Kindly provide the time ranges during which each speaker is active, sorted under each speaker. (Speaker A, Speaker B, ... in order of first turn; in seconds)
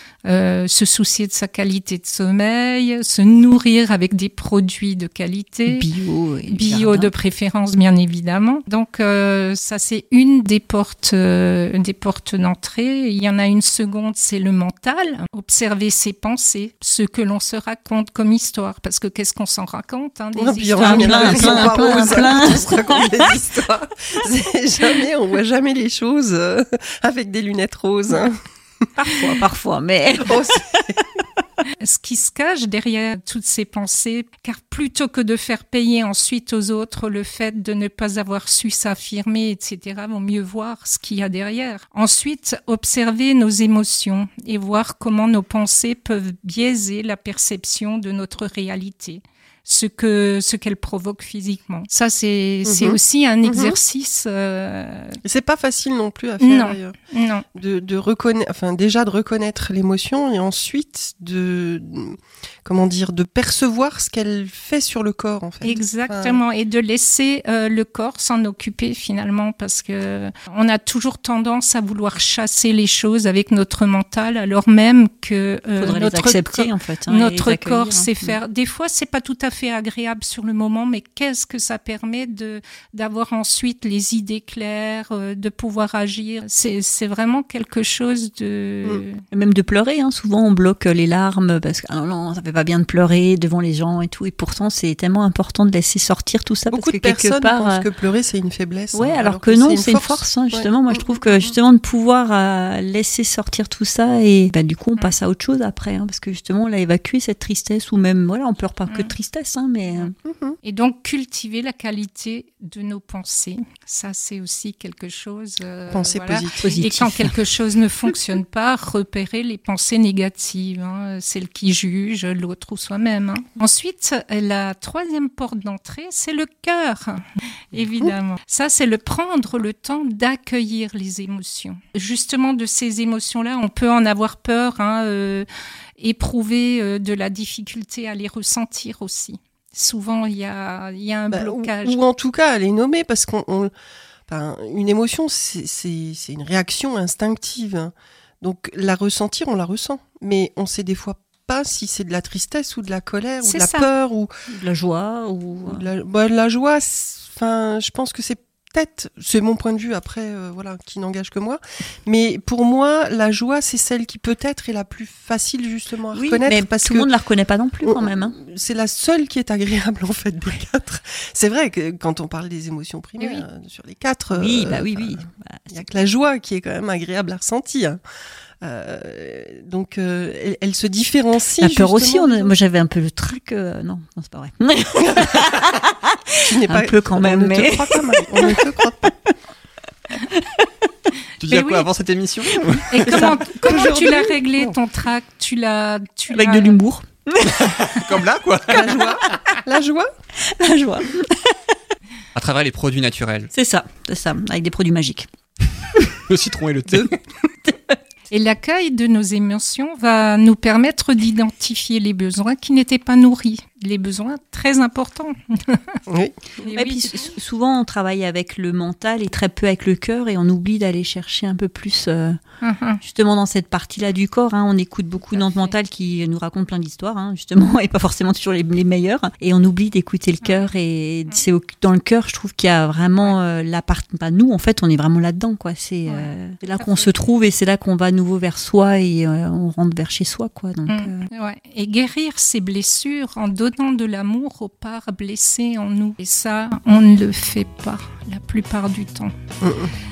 Speaker A: 0.2-5.9, 6.5-22.2, 31.8-55.2, 56.4-57.5, 65.6-89.2, 108.9-109.2, 110.6-135.5, 136.0-142.0, 153.4-153.9, 192.9-196.8, 208.3-216.0, 216.6-217.3, 222.6-223.0, 225.3-225.7, 236.1-237.1, 240.9-249.3
Speaker B: 5.7-7.1, 20.8-23.1, 29.0-31.0, 75.8-78.4, 89.3-97.9, 98.9-110.1, 116.6-117.4, 154.5-155.9, 166.1-168.3, 173.2-173.4, 174.3-175.8, 181.6-188.8, 190.2-190.7, 191.5-191.9, 192.8-193.8, 196.3-197.8, 200.5-201.7, 203.5-205.3, 216.7-222.4, 223.0-241.2
Speaker C: 20.4-28.4, 30.2-30.9, 52.6-53.8, 55.2-57.0, 57.6-66.4, 96.7-101.5, 110.3-110.6, 115.9-116.7, 141.3-143.7, 144.3-154.3, 155.7-167.1, 167.8-178.0, 178.6-182.6, 186.4-189.1, 193.2-194.7, 198.7-200.1, 216.1-216.7, 249.6-249.9
Speaker D: 191.4-193.2, 197.5-199.2, 202.3-203.5, 206.3-207.2